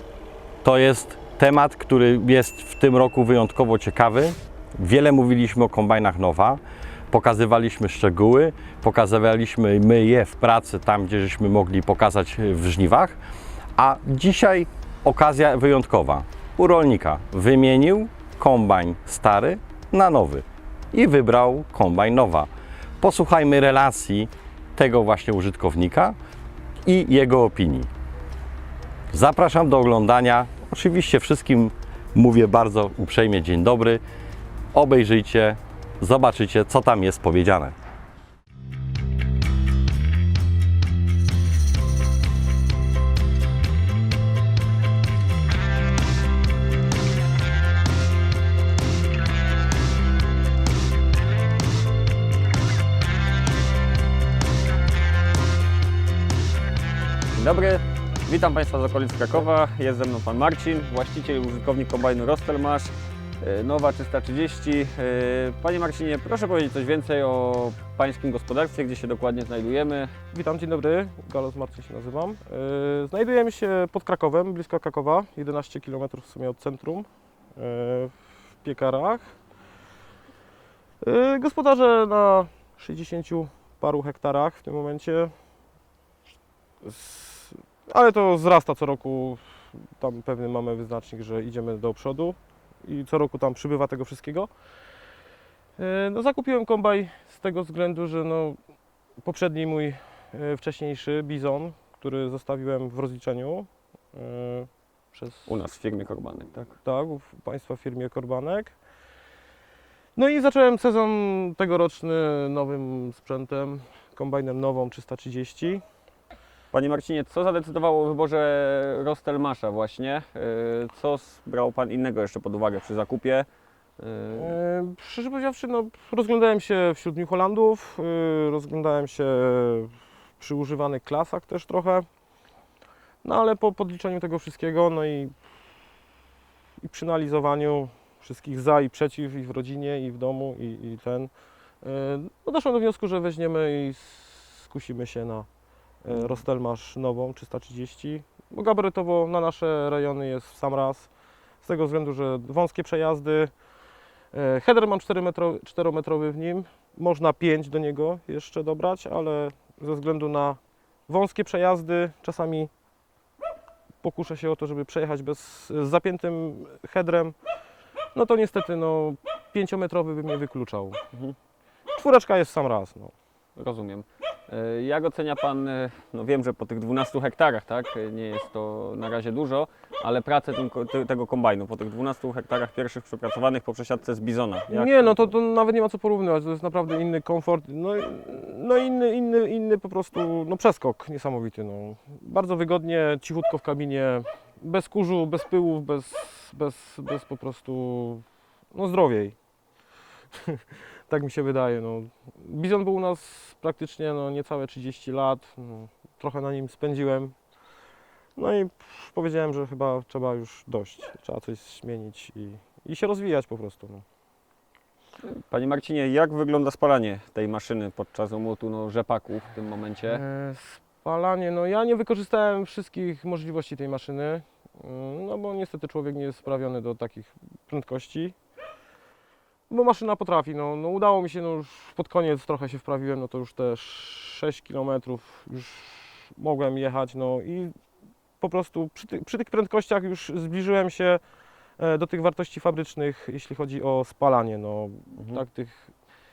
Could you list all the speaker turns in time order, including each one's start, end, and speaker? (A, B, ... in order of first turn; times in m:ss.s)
0:00.6-0:13.2 A
0:13.8-0:22.5 A
0:23.0-0:26.2 A
0:26.9-0:27.9 A
0:29.1-0:34.0 A
0:34.7-0:37.7 A
0:57.4-1:10.1 B
1:10.3-1:19.4 C
1:21.0-1:25.3 C
1:26.8-1:34.5 C
1:35.8-1:38.6 C
1:39.2-1:45.6 C
1:45.5-1:46.8 B
1:46.8-1:48.8 C
1:50.2-1:55.8 C
1:56.7-2:03.5 B
2:04.0-2:04.6 B
2:04.4-2:12.0 C
2:13.2-2:15.4 C
2:16.8-2:21.3 C
2:21.8-2:25.5 C
2:26.0-2:31.1 C
2:31.6-2:33.5 C
2:34.3-2:42.7 C
2:44.0-2:47.4 C
2:48.1-2:51.0 C
2:52.0-2:53.1 C
2:53.6-3:05.3 B
3:04.7-3:19.4 C
3:20.4-3:27.4 C
3:28.4-3:34.0 C
3:35.2-3:40.2 B
3:40.1-3:48.4 C
3:49.7-3:57.8 C
3:58.4-4:01.2 C
4:01.8-4:05.9 C